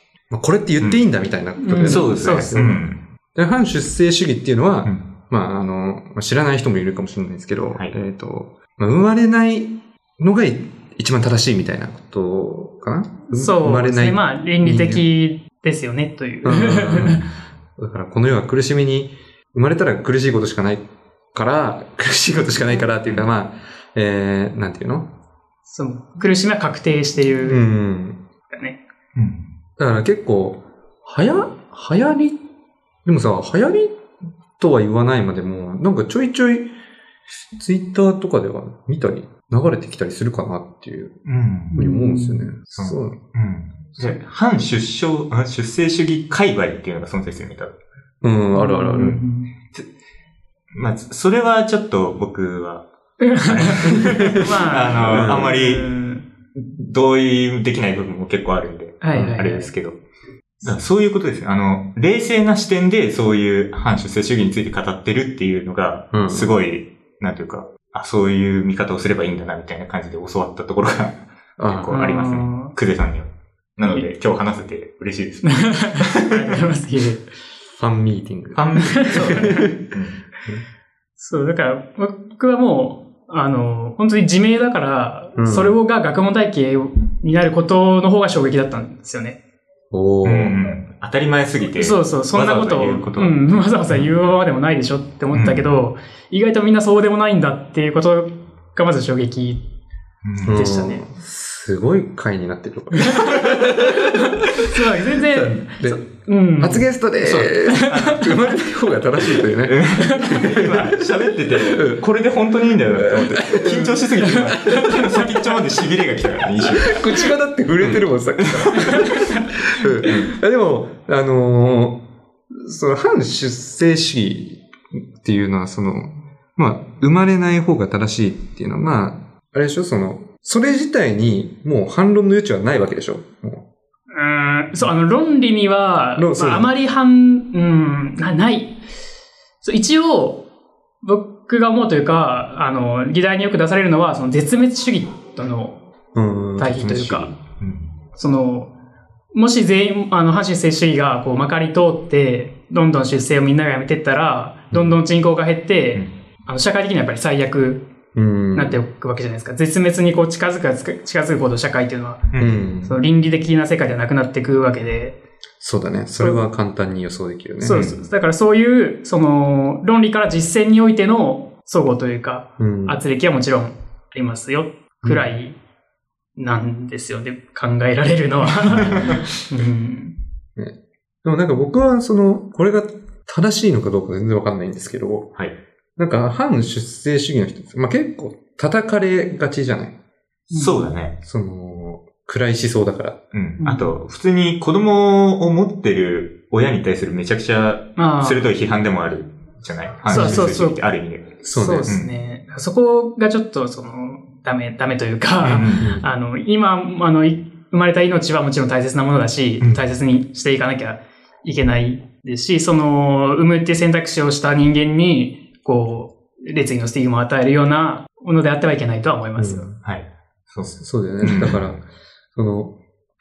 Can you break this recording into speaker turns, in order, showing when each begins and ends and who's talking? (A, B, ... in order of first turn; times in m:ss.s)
0:00.3-0:02.8 A
0:01.6-0:02.7 B
0:01.8-0:03.0 C
0:03.3-0:15.0 A
0:13.3-0:17.2 B
0:16.4-0:25.1 A
0:25.7-0:27.6 B
0:27.4-0:28.2 A
0:28.5-0:28.8 B
0:29.1-0:29.5 C
0:29.8-0:32.4 A
0:33.0-0:34.0 A
0:34.6-0:36.7 A
0:37.5-0:41.2 A
0:41.2-0:41.7 C
0:41.7-0:42.5 B
0:41.7-0:43.2 A
0:42.7-0:47.8 C
0:48.2-0:49.2 A
0:48.5-0:49.5 B
0:50.7-0:52.9 C
0:53.2-0:56.2 B
0:53.4-0:55.9 C
0:54.0-0:54.4 A
0:55.1-0:55.5 A
0:56.5-1:00.0 C
0:59.0-0:59.7 B
1:00.6-1:16.3 C
1:06.1-1:06.5 A
1:11.6-1:12.2 A
1:11.9-1:12.7 B
1:15.4-1:17.3 B
1:17.8-1:19.8 A
1:18.5-1:20.2 C
1:18.8-1:19.7 B
1:21.2-1:29.4 B
1:25.4-1:25.8 A
1:29.9-1:30.6 A
1:30.2-1:34.1 C
1:31.8-1:39.6 B
1:35.3-1:35.6 C
1:40.2-1:40.6 C
1:40.4-1:44.3 A
1:40.4-1:41.0 B
1:43.0-1:46.9 B
1:45.3-1:50.9 A
1:47.2-1:48.5 C
1:47.6-1:48.2 B
1:49.3-1:57.1 C
1:50.0-1:50.4 B
1:51.5-1:52.0 A
1:53.0-1:54.0 A
1:54.5-1:55.2 B
1:56.8-2:13.6 A
1:57.8-1:59.3 C
1:59.0-1:59.4 B
2:00.0-2:00.3 C
2:14.1-2:18.8 B
2:16.2-2:16.7 A
2:19.6-2:20.4 B
2:21.0-2:25.8 B
2:26.1-2:27.3 A
2:26.6-2:27.3 B
2:27.4-2:27.9 C
2:28.2-2:28.7 B
2:29.3-2:37.9 B
2:38.1-2:38.8 A
2:38.5-2:42.3 B
2:42.3-2:42.6 C
2:42.4-2:43.0 A
2:42.8-2:45.2 B
2:45.6-2:47.9 A
2:47.6-2:55.6 B
2:47.7-2:48.0 C
2:52.6-2:53.0 A
2:56.4-3:00.2 B
2:58.7-2:59.2 C
3:00.6-3:05.3 A
3:06.0-3:10.0 A
3:10.5-3:10.9 B
3:10.5-3:11.2 C
3:11.2-3:13.2 A
3:13.3-3:22.1 C
3:13.6-3:13.9 B
3:18.0-3:18.4 B
3:20.1-3:20.8 B
3:20.1-3:20.5 A
3:21.4-3:21.9 A
3:21.4-3:39.7 B
3:25.4-3:25.9 C
3:25.8-3:26.1 A
3:39.4-3:39.8 A
3:39.8-3:41.8 C
3:40.8-3:41.8 A
3:42.3-3:42.7 A